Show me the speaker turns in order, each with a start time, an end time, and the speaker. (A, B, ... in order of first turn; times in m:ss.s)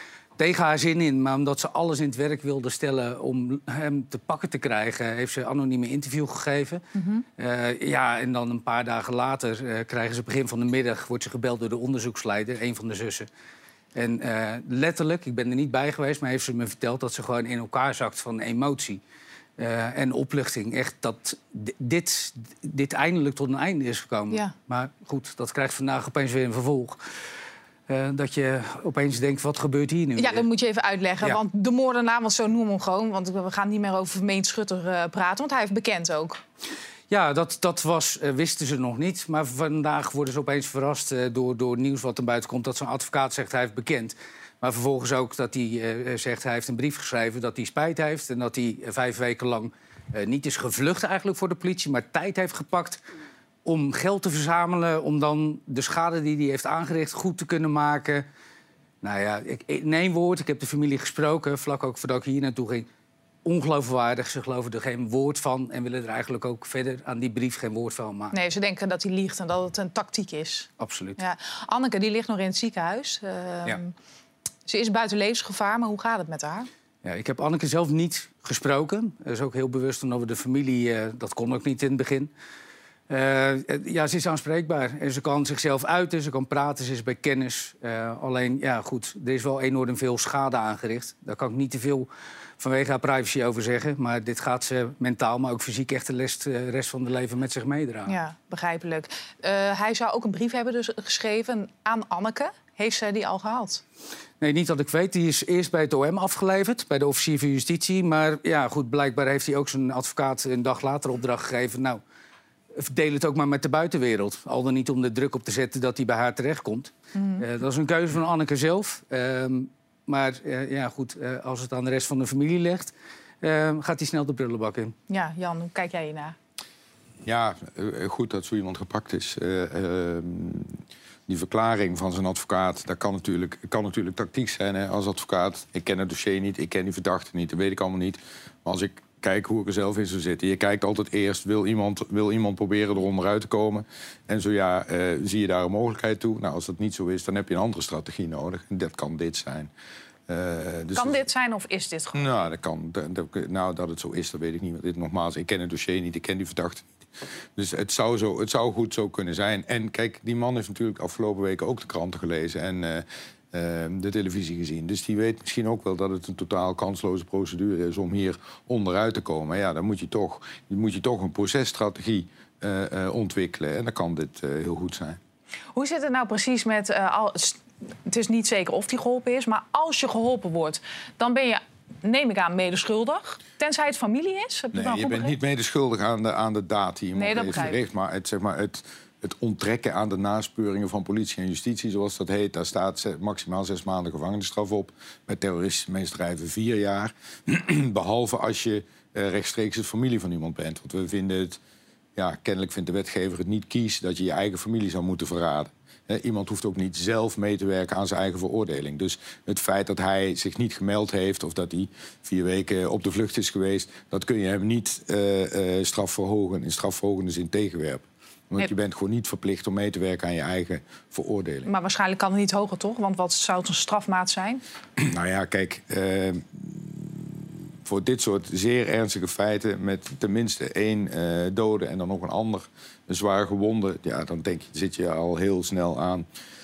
0:00.4-0:06.8 A
0:07.0-0:07.2 B
0:07.4-0:13.3 A
0:14.0-0:19.0 A
0:19.6-0:27.0 A
0:27.9-0:30.4 A
0:30.2-0:36.4 B
0:37.1-0:53.0 A
0:53.6-0:58.2 A
0:59.0-1:02.9 A
1:03.4-1:08.4 A
1:08.3-1:13.9 B
1:10.8-1:11.2 A
1:14.7-1:16.7 B
1:17.0-1:22.3 A
1:23.1-1:32.1 A
1:32.6-1:38.2 A
1:38.1-1:43.8 B
1:44.4-1:52.0 A
1:52.8-2:05.0 A
1:57.2-1:57.4 B
2:05.1-2:06.4 B
2:07.2-2:29.7 C
2:30.3-2:31.2 C
2:31.0-2:32.3 B
2:32.1-2:36.9 C
2:37.6-2:55.2 C
2:55.8-3:05.3 B
3:04.7-3:21.6 C
3:07.2-3:07.8 B
3:22.2-3:41.7 C
3:41.6-3:44.6 B
3:45.0-3:56.3 C